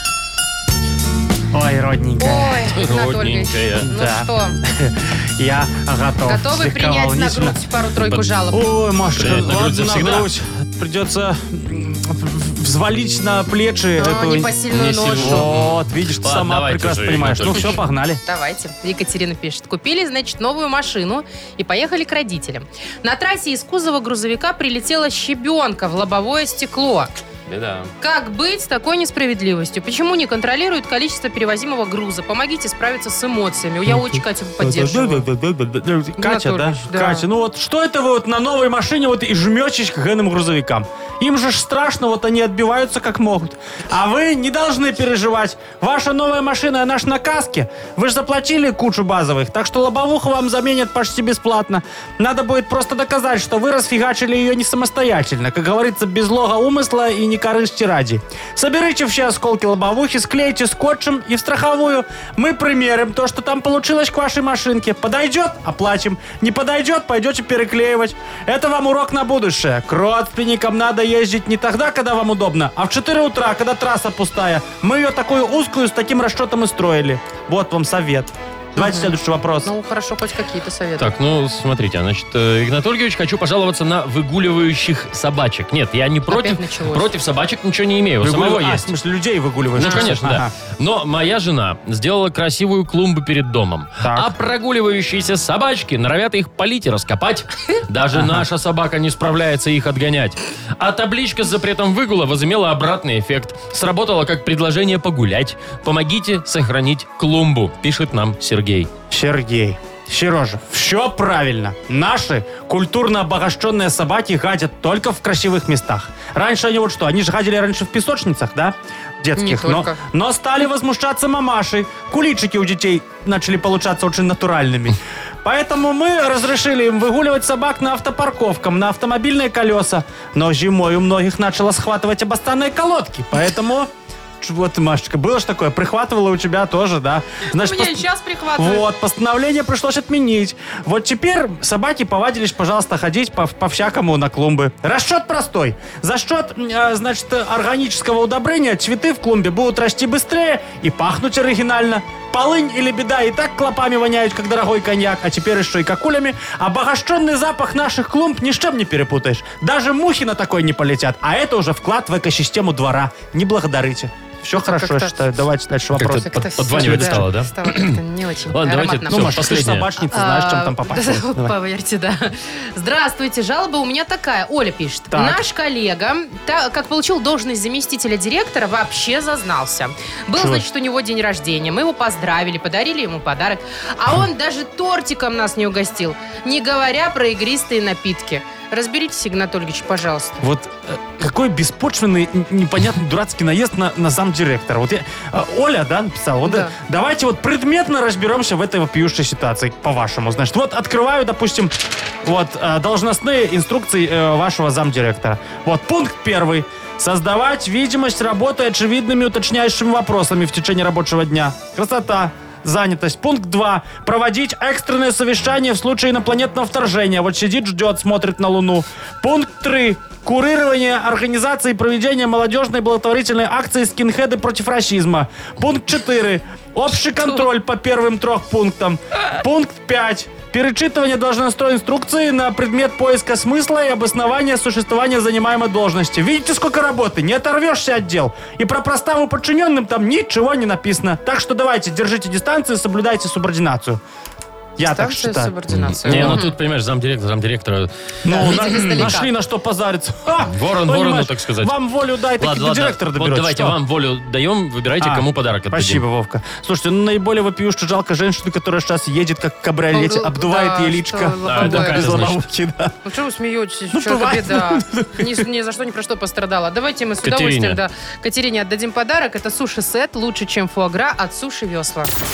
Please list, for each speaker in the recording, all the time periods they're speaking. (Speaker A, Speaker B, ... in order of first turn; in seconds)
Speaker A: 1.5-2.7, 3.8-7.6, 8.5-14.5, 15.1-18.2, 33.9-79.7, 88.2-90.5, 94.0-94.3, 98.1-98.4, 109.1-133.9, 134.4-138.0, 138.6-167.3, 169.1-171.5, 175.1-175.4, 180.3-180.6, 190.4-244.0, 244.8-245.5, 246.0-246.4, 248.2-253.8, 255.0-262.9, 263.9-265.4
Speaker B: 2.2-4.6, 6.3-8.7, 14.0-15.5, 17.5-27.1, 28.0-35.2, 36.2-37.2, 78.8-81.1, 86.3-87.1, 89.8-90.1, 119.3-120.0, 137.5-138.8, 164.6-165.1, 166.2-190.4, 196.4-196.7, 244.8-246.5, 248.2-249.3, 259.9-262.1, 263.0-272.1
Speaker C: 2.7-3.9, 9.2-10.3, 14.7-17.8, 27.5-27.9, 81.0-88.9, 89.7-108.9, 165.9-168.0, 168.5-169.9, 245.7-247.9, 250.5-251.8, 252.4-256.0, 261.4-262.4, 267.2-267.8